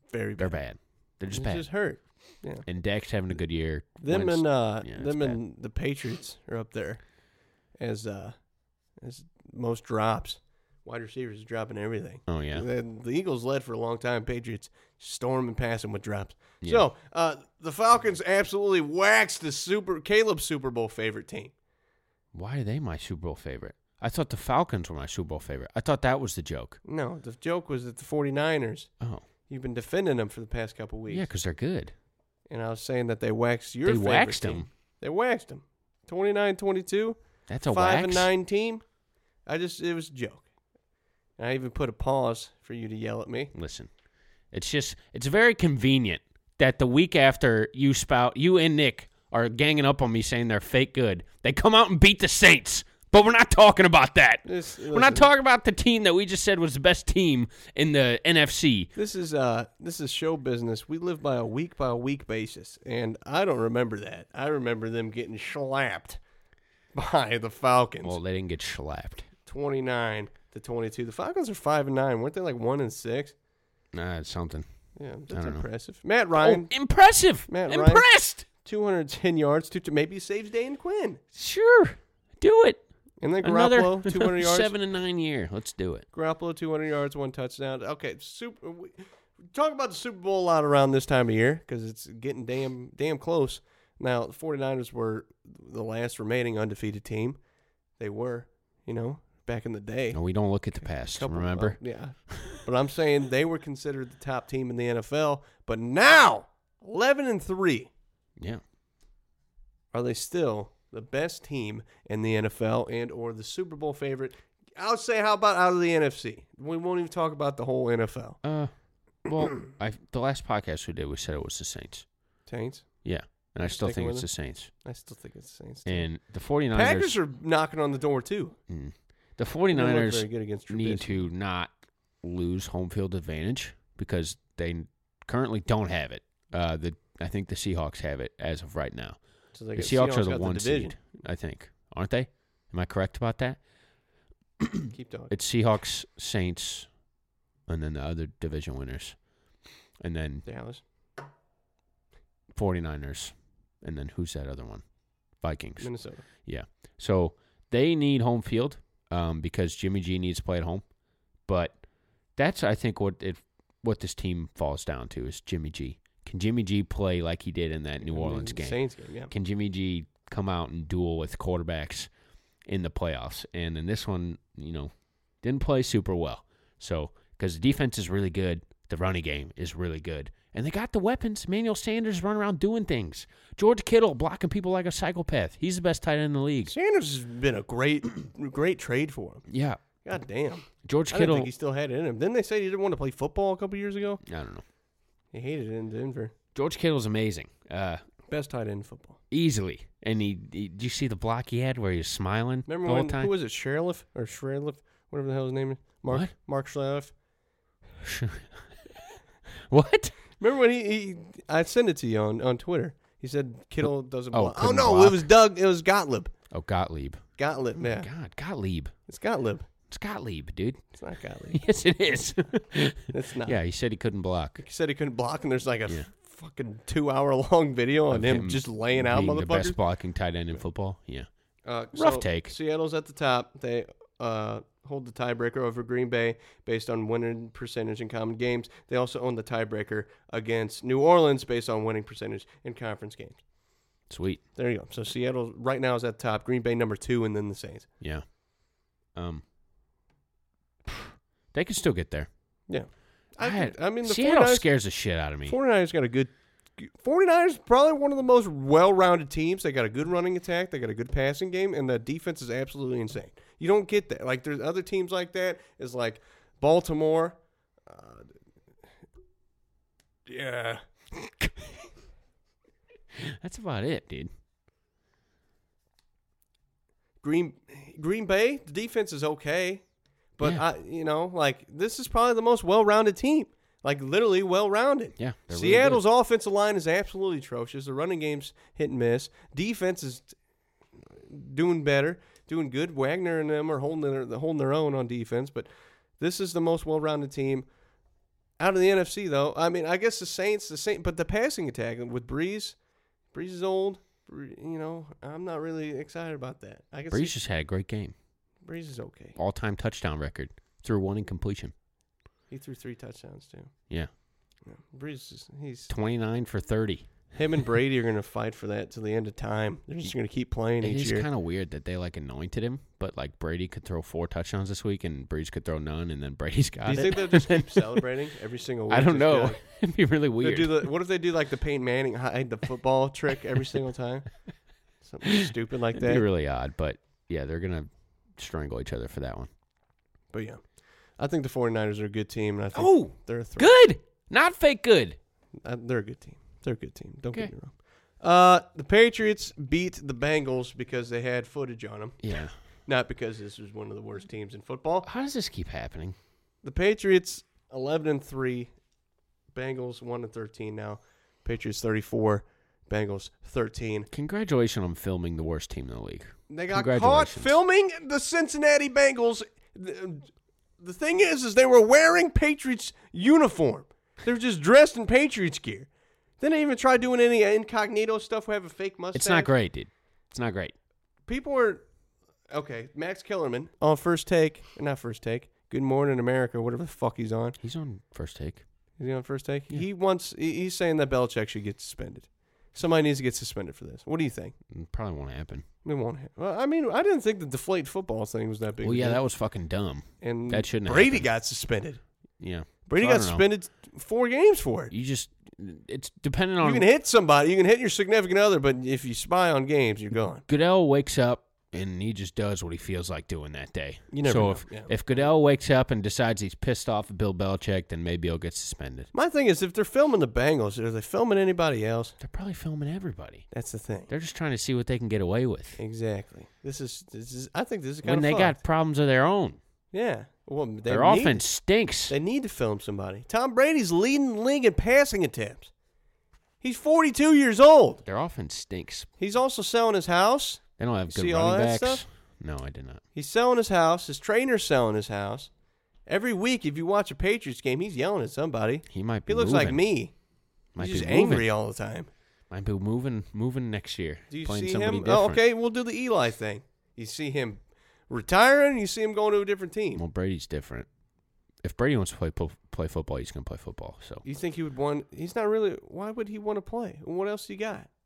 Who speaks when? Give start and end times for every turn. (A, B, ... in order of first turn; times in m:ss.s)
0:00.1-0:02.7 A
0:00.4-0:01.7 B
0:02.6-0:05.4 B
0:04.0-0:07.0 A
0:07.8-0:08.4 A
0:09.0-0:21.5 A
0:12.3-0:12.7 B
0:22.3-0:26.8 B
0:26.8-0:28.9 A
0:29.5-0:31.3 A
0:31.1-0:31.9 B
0:32.5-0:38.8 A
0:33.8-0:34.7 B
0:37.5-0:38.3 B
0:39.5-0:40.5 A
0:41.4-0:43.5 A
0:43.5-0:43.9 B
0:44.5-0:58.9 B
0:54.4-0:55.3 A
0:59.0-1:06.2 A
1:07.0-1:08.2 A
1:08.0-1:09.3 B
1:09.5-1:13.3 A
1:13.9-1:14.7 B
1:15.0-1:16.7 A
1:15.3-1:15.7 B
1:16.4-1:18.5 B
1:17.5-1:21.2 A
1:21.4-1:22.8 B
1:23.2-1:24.7 A
1:23.4-1:26.1 B
1:26.1-1:29.0 A
1:29.5-1:37.4 A
1:38.0-1:40.2 A
1:40.1-1:41.8 B
1:41.0-1:47.9 A
1:49.9-1:58.4 A
1:58.4-1:58.7 B
1:59.2-2:02.1 B
2:02.5-2:06.1 A
2:03.0-2:04.7 B
2:05.9-2:07.2 B
2:06.7-2:08.6 A
2:08.7-2:19.2 B
2:09.7-2:11.3 A
2:19.5-2:21.0 A
2:19.8-2:23.6 B
2:24.6-2:26.9 B
2:24.9-2:25.3 A
2:27.7-2:29.2 B
2:30.0-2:30.5 B
2:30.4-2:30.8 A
2:32.5-2:40.9 B
2:35.8-2:36.2 A
2:41.4-2:41.8 B
2:42.4-2:52.1 B
2:48.0-2:49.3 A
2:52.7-3:06.7 B
3:06.7-3:09.5 A
3:09.5-3:09.8 B
3:10.0-3:14.2 A
3:10.8-3:11.5 B
3:14.2-3:14.6 B
3:15.3-3:16.3 A
3:16.6-3:18.0 B
3:18.3-3:19.2 A
3:19.3-3:23.3 B
3:22.7-3:27.1 A
3:28.0-3:28.7 B
3:29.7-3:30.2 B
3:30.4-3:36.3 A
3:33.8-3:35.3 B
3:36.5-3:37.2 B
3:37.4-3:38.1 A
3:37.8-3:38.9 B
3:39.1-3:39.7 A
3:39.9-3:40.8 B
3:41.0-3:41.6 A
3:41.5-3:44.6 B
3:43.1-3:43.6 A
3:44.6-3:49.8 A
3:48.1-3:51.3 B
3:51.7-4:03.4 A
3:51.9-3:52.5 B
4:04.1-4:04.4 B
4:04.6-4:07.9 A
4:08.0-4:08.3 B
4:09.1-4:09.4 B
4:10.9-4:12.3 B
4:12.7-4:28.3 A
4:13.4-4:15.6 B
4:30.3-4:31.5 A
4:33.2-4:34.3 B
4:37.2-4:39.8 A
4:40.4-4:50.3 A
4:45.2-4:46.0 B
4:51.3-4:55.7 A
4:56.2-4:57.7 A
4:58.6-5:02.8 A
5:03.3-5:07.4 A
5:07.1-5:08.1 B
5:08.6-5:09.4 A
5:09.4-5:11.7 B
5:12.5-5:13.7 A
5:14.6-5:15.9 A
5:15.9-5:17.1 B
5:17.4-5:21.3 A
5:20.8-5:28.0 B
5:26.9-5:29.6 A
5:28.9-5:30.9 B
5:30.4-5:34.3 A
5:35.0-5:36.2 A
5:35.3-5:39.5 B
5:40.3-5:40.6 A
5:41.2-5:43.7 A
5:42.7-5:45.2 B
5:45.6-5:52.2 A
5:52.2-5:52.5 B
5:52.9-5:55.1 A
5:55.0-5:56.2 B
5:56.6-5:58.7 A
5:59.5-6:04.1 A
6:04.1-6:07.6 B
6:06.5-6:10.3 A
6:10.8-6:15.9 A
6:16.4-6:19.5 A
6:19.1-6:20.7 B
6:21.3-6:21.8 A
6:22.5-6:27.6 A
6:27.6-6:28.6 B
6:29.0-6:34.6 A
6:34.7-6:35.7 B
6:35.8-6:39.2 A
6:38.8-6:41.3 B
6:40.2-6:42.0 A
6:42.4-6:43.4 B
6:42.9-6:44.9 A
6:44.9-6:46.8 B
6:46.6-6:50.4 A
6:50.5-6:59.1 B
6:54.1-6:55.3 A
6:59.1-7:02.2 A
7:02.2-7:03.4 B
7:03.5-7:04.1 A
7:04.1-7:05.8 B
7:05.8-7:08.6 A
7:08.0-7:09.6 B
7:09.9-7:11.4 A
7:10.9-7:12.2 B
7:12.1-7:15.7 A
7:16.6-7:18.0 A
7:18.1-7:19.1 B
7:19.2-7:22.0 A
7:20.8-7:23.0 B
7:23.2-7:25.5 A
7:26.1-7:30.1 A
7:28.9-7:29.8 B
7:30.8-7:31.5 B
7:30.8-7:32.1 A
7:32.5-7:35.4 B
7:34.3-7:40.0 A
7:40.0-7:40.9 B
7:41.6-7:44.2 B
7:44.2-7:47.9 A